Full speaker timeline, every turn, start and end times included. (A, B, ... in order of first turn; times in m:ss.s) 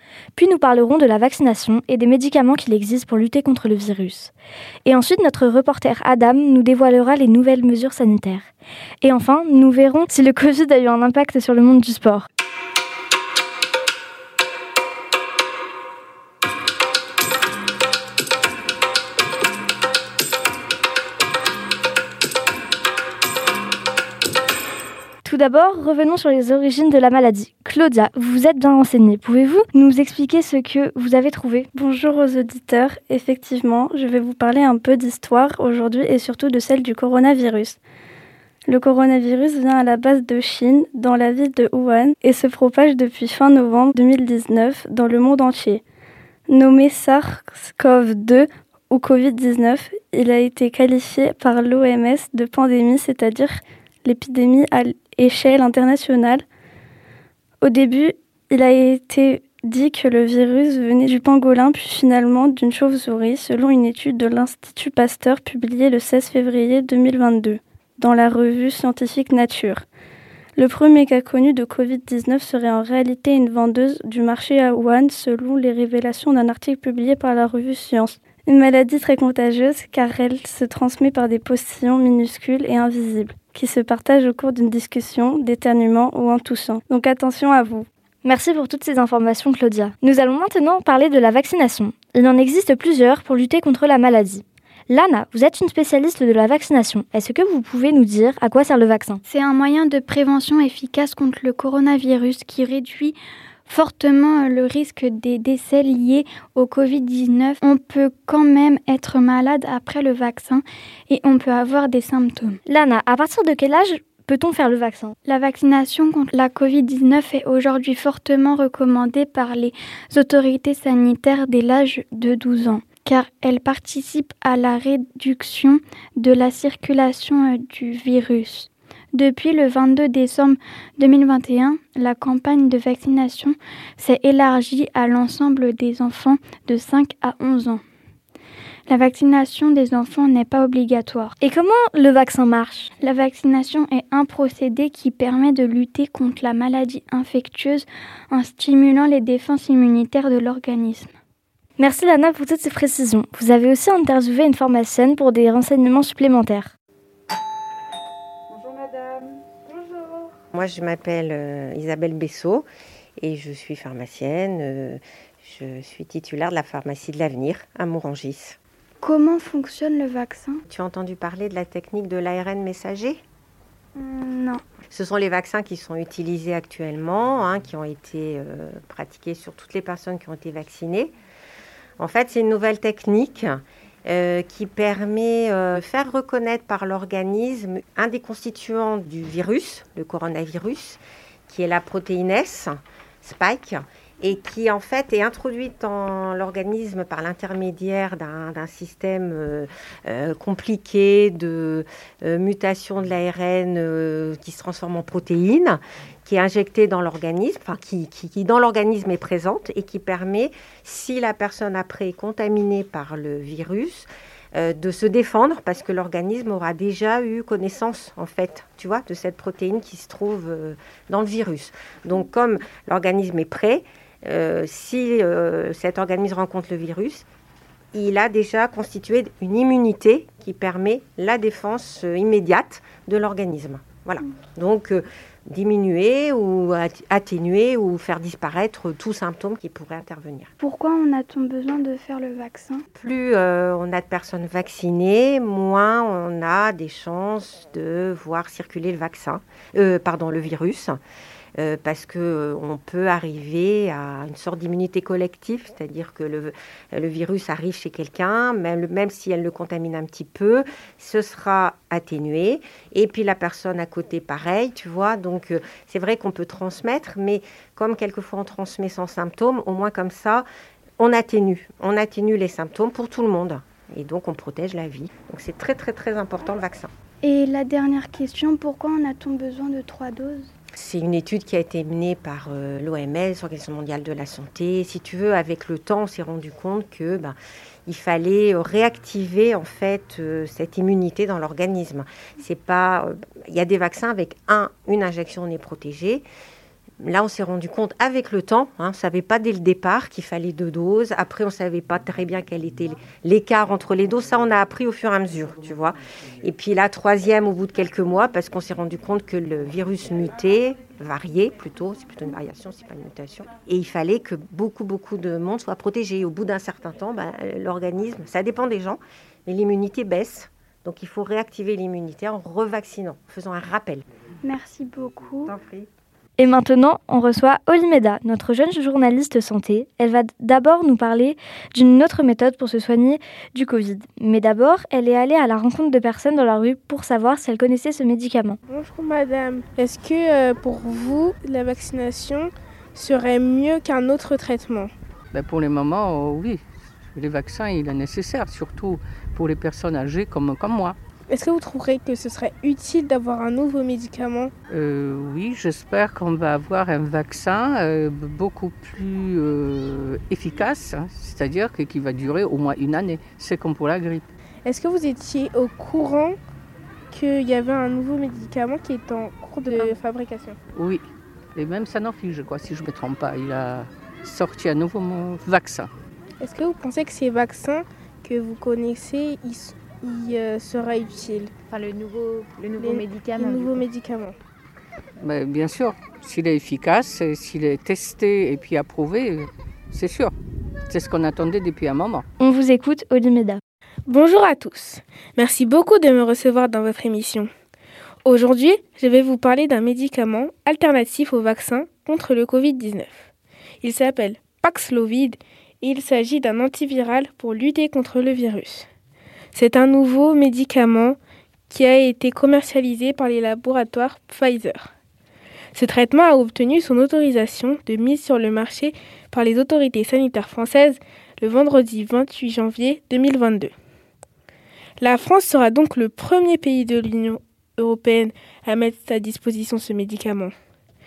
0:00.3-0:04.3 A
0:04.8-0:08.5 A
0:09.0-0:12.2 A
0:25.2-0:31.7 A
0:31.7-0:37.8 B
0:38.7-0:45.8 B
0:46.5-0:56.4 B
0:57.6-1:09.8 B
1:10.6-1:27.9 B
1:28.2-1:39.2 A
1:39.2-1:43.2 C
1:43.7-1:52.6 C
1:52.7-1:55.1 A
1:55.2-2:17.8 C
2:18.9-2:21.3 C
2:21.4-2:22.9 A
2:23.0-2:31.1 C
2:31.8-2:36.7 A
2:40.5-2:42.6 D
2:43.2-2:48.6 D
2:49.0-2:50.6 C
2:50.7-2:53.2 D
2:54.0-2:54.6 C
2:54.9-3:01.1 D
3:02.0-3:47.2 D
3:47.9-4:00.5 D
4:00.6-4:02.8 C
4:02.9-4:11.0 D
4:11.6-4:30.5 D
4:31.0-4:36.9 D
4:37.2-4:40.5 C
4:40.7-4:47.4 D
4:47.9-4:56.2 D
4:57.0-5:24.0 D
5:24.4-5:25.5 C
5:25.4-5:25.9 D
5:26.4-5:38.6 A
5:38.7-5:44.9 E
5:45.3-5:46.6 F
5:47.1-5:51.0 F
5:51.3-5:54.5 E
5:54.7-6:04.3 F
6:04.6-6:06.4 E
6:07.1-6:10.6 E
6:10.7-6:15.9 F
6:16.4-6:21.5 E
6:21.7-6:23.9 G
6:22.8-6:24.3 E
6:25.2-6:30.3 F
6:30.9-6:32.2 F
6:32.4-6:33.6 A
6:34.1-6:37.5 E
6:38.2-6:43.1 E
6:43.8-6:48.8 E
6:49.5-6:51.2 E
6:51.7-6:54.9 E
6:55.7-7:03.7 E
7:05.0-7:10.5 E